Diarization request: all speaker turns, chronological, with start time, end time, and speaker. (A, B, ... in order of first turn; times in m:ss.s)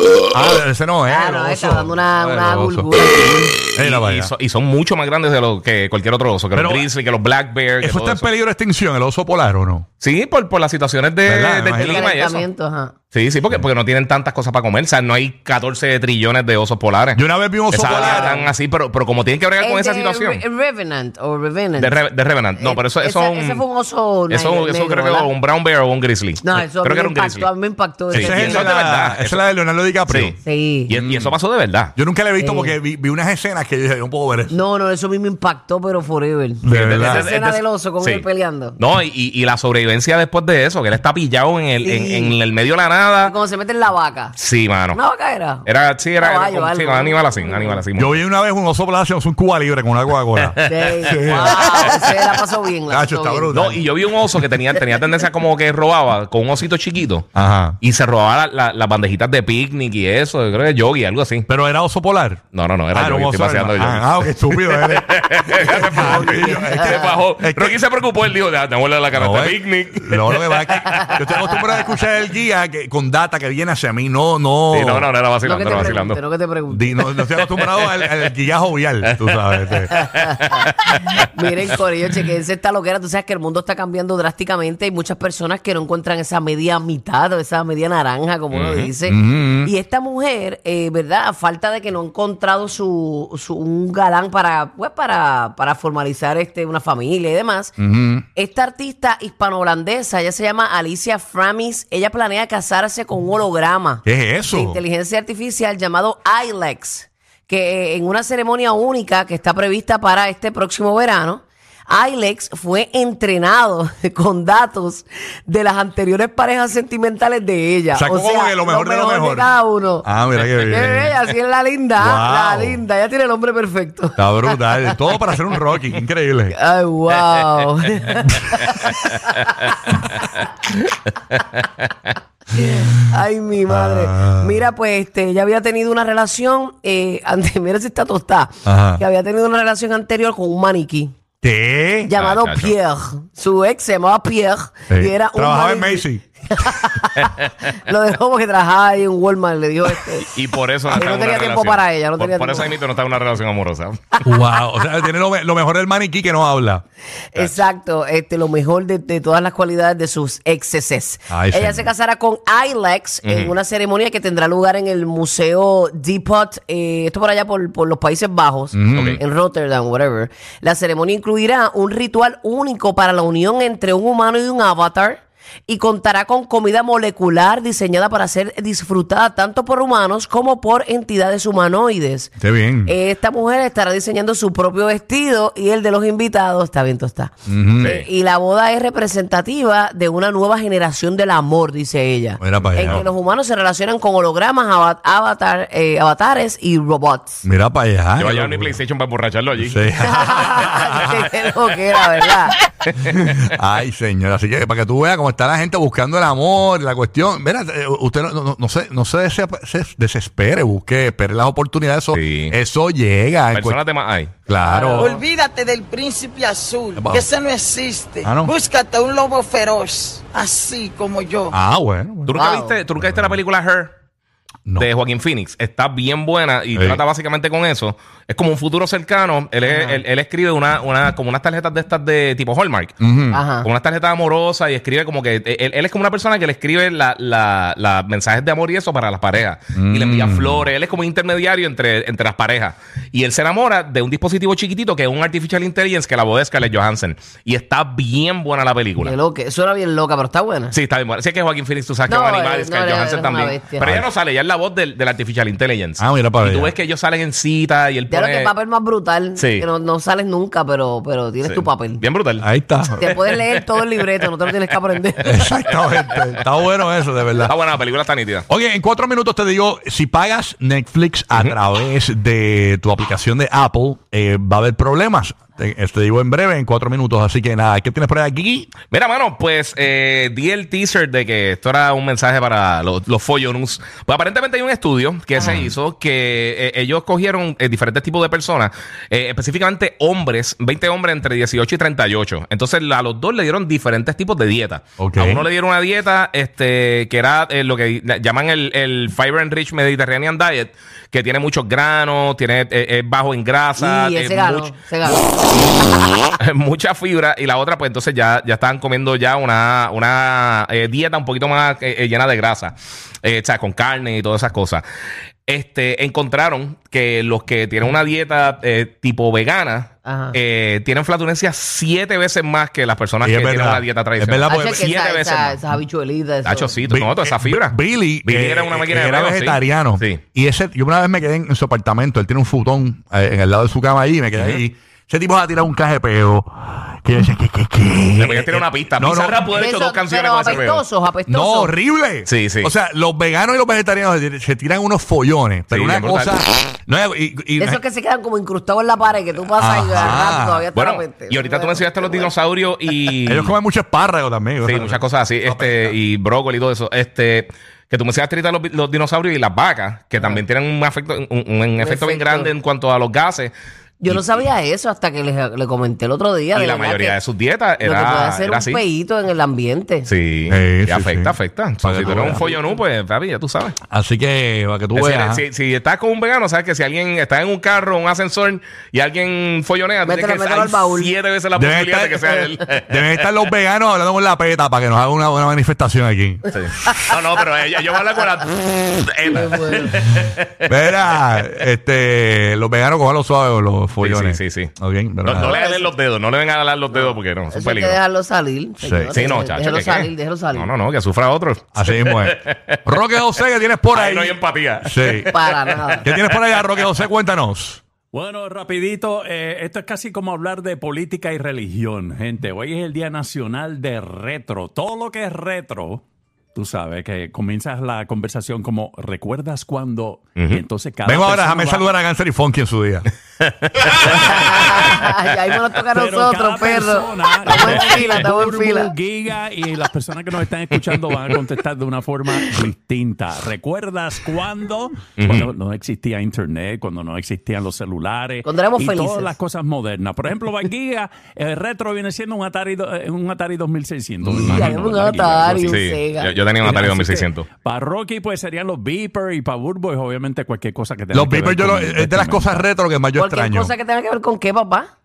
0:00.3-0:02.9 A
0:01.1-0:03.6 B
0:03.8-0:04.3 A
0:03.8-0:08.3 C
0:06.5-0:06.9 A
0:07.8-0:09.9 A
0:10.0-0:12.5 C
0:11.3-0:12.1 A
0:11.7-0:12.9 B
0:13.1-0:20.4 C
0:17.1-0:18.5 A
0:17.9-0:18.4 B
0:19.6-0:22.0 B
0:21.8-0:23.6 C
0:22.6-0:25.3 B
0:24.3-0:27.5 C
0:26.4-0:28.7 B
0:28.1-0:29.4 C
0:28.1-0:30.4 A
0:30.1-0:30.4 C
0:30.4-0:31.0 B
0:30.9-0:31.9 C
0:31.0-0:31.4 A
0:32.0-0:34.6 A
0:32.4-0:32.8 B
0:34.5-0:38.8 B
0:36.6-0:37.3 A
0:36.7-0:38.2 C
0:38.8-0:43.3 C
0:41.8-0:42.4 B
0:43.2-0:44.4 B
0:44.4-0:45.0 C
0:44.9-0:45.7 B
0:45.6-0:48.2 C
0:46.2-0:47.8 B
0:47.9-0:52.0 A
0:50.4-0:50.7 C
0:50.6-0:53.5 B
0:51.2-0:52.1 C
0:52.9-0:53.8 A
0:53.5-0:57.3 C
0:57.4-0:57.8 A
0:57.8-1:01.5 C
1:01.5-1:02.4 A
1:02.5-1:10.7 C
1:02.9-1:07.8 A
1:06.3-1:07.1 B
1:09.1-1:15.1 A
1:10.9-1:11.3 B
1:14.7-1:16.2 C
1:15.4-1:17.0 B
1:16.7-1:20.0 A
1:17.3-1:18.3 C
1:19.1-1:21.3 C
1:19.9-1:20.6 B
1:21.2-1:37.8 B
1:28.5-1:28.9 C
1:29.0-1:29.7 A
1:37.8-1:38.2 A
1:38.4-2:00.1 B
1:44.0-1:44.8 A
1:57.9-2:01.1 A
2:00.6-2:05.3 B
2:02.0-2:02.8 A
2:04.2-2:06.6 A
2:06.5-2:09.7 B
2:08.7-2:12.1 C
2:12.5-2:21.1 B
2:13.7-2:14.6 A
2:18.6-2:19.0 A
2:21.4-2:22.2 A
2:22.1-2:30.3 B
2:22.2-2:22.8 C
2:24.9-2:26.2 A
2:30.3-2:34.2 C
2:30.9-2:32.7 B
2:34.2-2:36.8 A
2:37.3-3:02.3 B
2:41.3-2:41.9 A
2:43.2-2:43.5 C
2:48.7-2:49.2 A
2:49.0-2:49.2 C
3:02.4-3:02.9 A
3:02.8-3:17.5 B
3:07.5-3:07.9 A
3:07.8-3:08.1 C
3:12.4-3:13.0 A
3:12.6-3:13.0 C
3:17.4-3:18.8 A
3:18.2-3:20.4 C
3:19.6-3:21.2 A
3:20.0-3:22.6 B
3:22.9-3:23.4 C
3:23.5-3:33.8 A
3:32.1-3:32.6 C
3:33.5-3:34.3 C
3:34.5-3:35.2 A
3:34.6-3:35.2 B
3:35.0-3:41.5 D
3:37.0-3:37.3 A
3:38.2-3:38.5 A
3:41.5-3:42.4 A
3:42.3-3:43.9 C
3:42.4-3:42.8 B
3:43.0-3:43.4 A
3:44.8-3:53.0 C
3:46.7-3:47.0 A
3:49.7-3:50.0 B
3:53.0-3:53.4 A
3:53.3-3:53.7 B
3:53.6-4:09.2 C
3:59.8-4:00.7 A
4:09.0-4:10.8 B
4:10.7-4:18.5 C
4:12.1-4:13.9 B
4:13.8-4:14.1 A
4:16.0-4:16.8 A
4:18.1-4:22.0 B
4:19.4-4:19.7 C
4:21.4-4:22.5 C
4:22.4-4:23.1 A
4:23.0-4:25.5 B
4:23.0-4:24.6 C
4:25.2-4:27.5 A
4:25.7-4:26.4 C
4:27.4-4:28.5 C
4:28.5-4:38.7 A
4:38.9-5:04.7 C
4:45.4-4:45.7 A
4:55.0-4:55.4 A
5:03.8-5:05.5 B
5:06.4-5:14.8 C
5:15.5-5:25.6 C
5:20.0-5:20.4 B
5:23.2-5:24.9 A
5:24.5-5:26.7 B
5:26.4-5:30.2 C
5:26.9-5:39.5 A
5:34.4-5:34.6 C
5:38.2-5:40.8 C
5:39.5-5:41.7 B
5:41.3-5:47.8 A
5:42.3-5:42.7 C
5:45.7-5:46.4 C
5:47.6-5:52.3 B
5:49.6-5:50.7 A
5:50.7-5:53.6 C
5:53.2-5:56.0 A
5:54.6-6:03.5 C
6:01.8-6:02.5 B
6:04.0-6:07.2 B
6:04.0-6:04.4 C
6:06.5-6:08.8 C
6:07.8-6:10.1 B
6:10.1-6:13.8 C
6:10.5-6:12.5 A
6:13.9-6:15.4 A
6:15.0-6:23.3 C
6:20.0-6:21.1 B
6:21.6-6:26.6 A
6:26.5-6:30.6 C
6:29.3-6:30.0 B
6:30.7-6:35.6 A
6:34.0-6:34.7 C
6:35.2-6:38.0 C
6:35.4-6:35.9 B
6:36.9-6:40.7 B
6:38.8-6:39.1 A
6:39.1-6:42.8 C
6:41.8-6:45.3 A
6:43.9-6:46.9 C
6:45.2-6:46.1 B
6:46.0-6:47.8 A
6:48.1-6:56.0 E
6:56.6-7:01.9 E
7:00.4-7:00.6 C
7:01.0-7:03.1 A
7:03.4-7:05.0 C
7:04.0-7:08.9 B
7:05.9-7:25.8 E
7:15.2-7:15.5 C
7:18.4-7:19.4 B
7:24.3-7:27.2 B
7:24.4-7:24.7 A
7:25.6-7:27.5 C
7:26.6-7:32.7 E
7:31.1-7:33.7 A
7:33.2-7:34.9 B